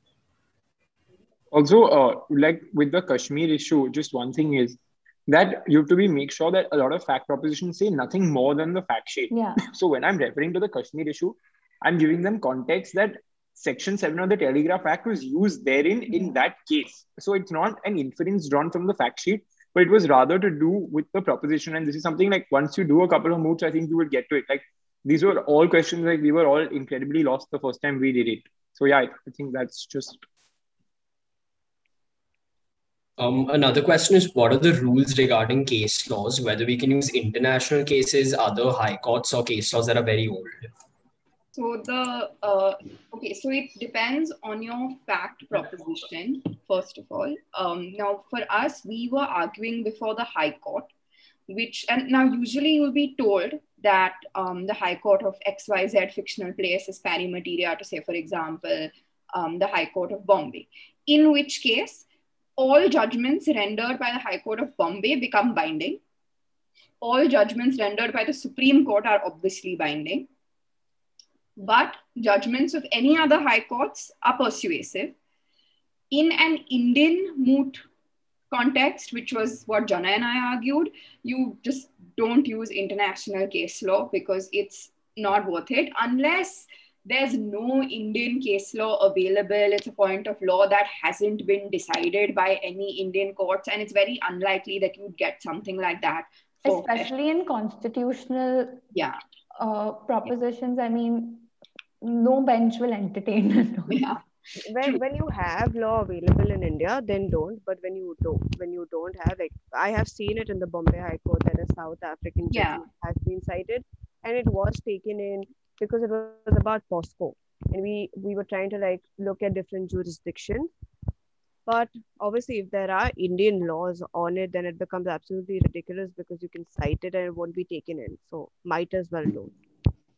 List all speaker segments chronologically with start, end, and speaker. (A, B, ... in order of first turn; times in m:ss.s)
0:01.5-0:30.2 A
0:09.3-0:09.6 B
0:16.1-0:16.4 B
0:33.2-0:40.7 C
0:41.5-0:50.9 D
0:51.5-1:02.0 D
1:02.6-1:06.0 D
1:07.0-1:10.3 D
1:11.6-1:15.2 D
1:16.1-1:17.8 D
1:18.5-1:37.1 D
1:36.6-1:38.8 B
1:38.9-1:39.2 D
1:39.6-1:41.5 B
1:42.0-1:44.1 B
1:43.9-1:44.2 D
1:44.6-2:00.7 E
1:52.5-1:52.8 D
2:01.7-2:09.6 E